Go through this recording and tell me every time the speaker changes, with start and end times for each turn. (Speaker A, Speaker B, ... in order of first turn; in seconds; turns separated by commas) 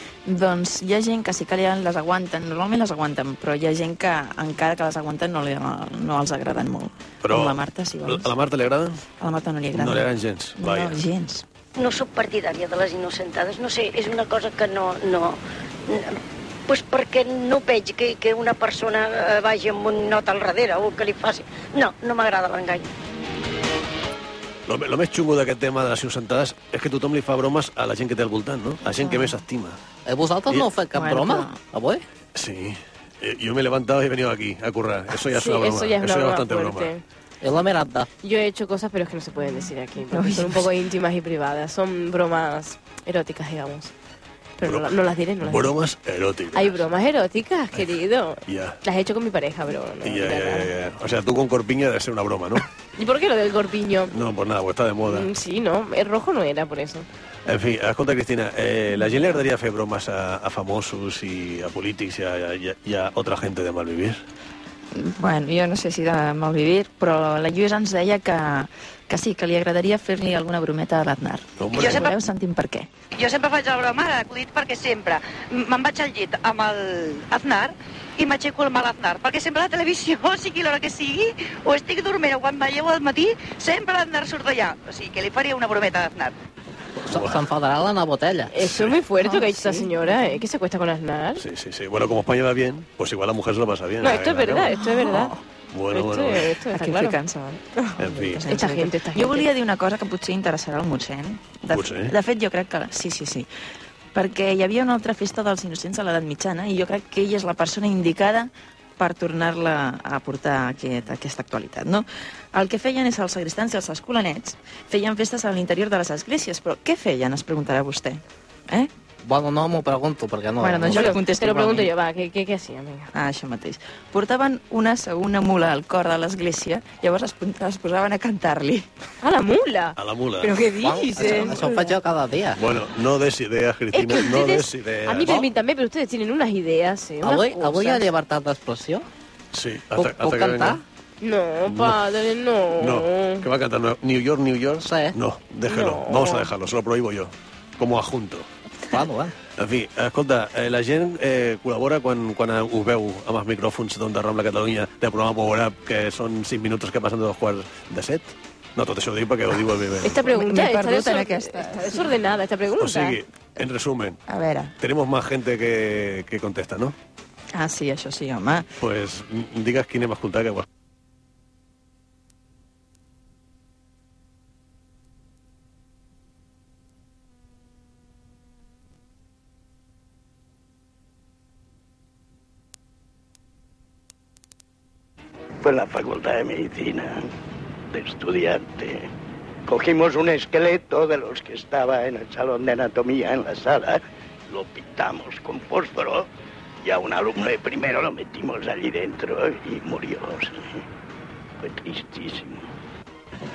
Speaker A: 0.3-8.3, Speaker B: 7.2-9.0, Speaker A: 9.2-11.4, Speaker B: 9.7-11.0, Speaker C: 11.8-22.9, Speaker B: 24.7-29.8, Speaker A: 29.0-29.3, Speaker D: 30.1-32.0, Speaker A: 30.9-31.6, Speaker B: 32.4-36.9, Speaker E: 35.3-37.0, Speaker D: 37.4-38.1, Speaker E: 38.2-43.9, Speaker A: 40.1-40.7, Speaker E: 44.6-45.7, Speaker B: 44.6-46.8, Speaker E: 46.5-50.7, Speaker B: 48.5-48.8, Speaker B: 50.0-52.6, Speaker E: 53.0-54.1, Speaker B: 54.1-55.3, Speaker E: 55.0-57.1, Speaker B: 57.5-64.2, Speaker A: 65.0-72.9, Speaker B: 71.6-72.1, Speaker C: 71.8-72.1, Speaker C: 73.1-86.3, Speaker D: 87.0-88.6, Speaker B: 87.1-87.4, Speaker E: 88.5-91.4, Speaker A: 89.2-90.4, Speaker B: 91.4-94.7, Speaker E: 94.0-95.3, Speaker A: 94.7-95.4, Speaker B: 95.7-96.5, Speaker E: 95.9-97.2, Speaker A: 96.7-103.5, Speaker B: 98.0-98.5, Speaker E: 98.5-99.5, Speaker B: 101.7-102.2, Speaker A: 104.1-118.9, Speaker D: 119.2-121.8, Speaker A: 120.6-121.9, Speaker E: 120.9-123.1, Speaker A: 123.1-128.9, Speaker E: 129.2-131.9, Speaker B: 130.0-130.7, Speaker D: 130.8-132.6, Speaker B: 132.6-135.4, Speaker E: 133.9-138.1, Speaker D: 137.2-139.1, Speaker B: 139.5-140.8, Speaker D: 139.9-140.8, Speaker E: 141.2-143.5, Speaker B: 141.7-142.0, Speaker B: 142.8-148.5, Speaker D: 144.8-145.2, Speaker E: 145.7-146.5, Speaker D: 148.9-149.3, Speaker B: 149.6-160.2, Speaker E: 160.0-163.2, Speaker A: 160.3-162.1, Speaker B: 162.8-164.2, Speaker A: 164.3-164.7, Speaker B: 164.8-166.9, Speaker A: 167.6-168.7, Speaker B: 168.8-170.7, Speaker F: 185.6-187.3, Speaker F: 187.9-189.1, Speaker F: 189.7-196.3, Speaker F: 196.8-200.8, Speaker F: 201.6-202.7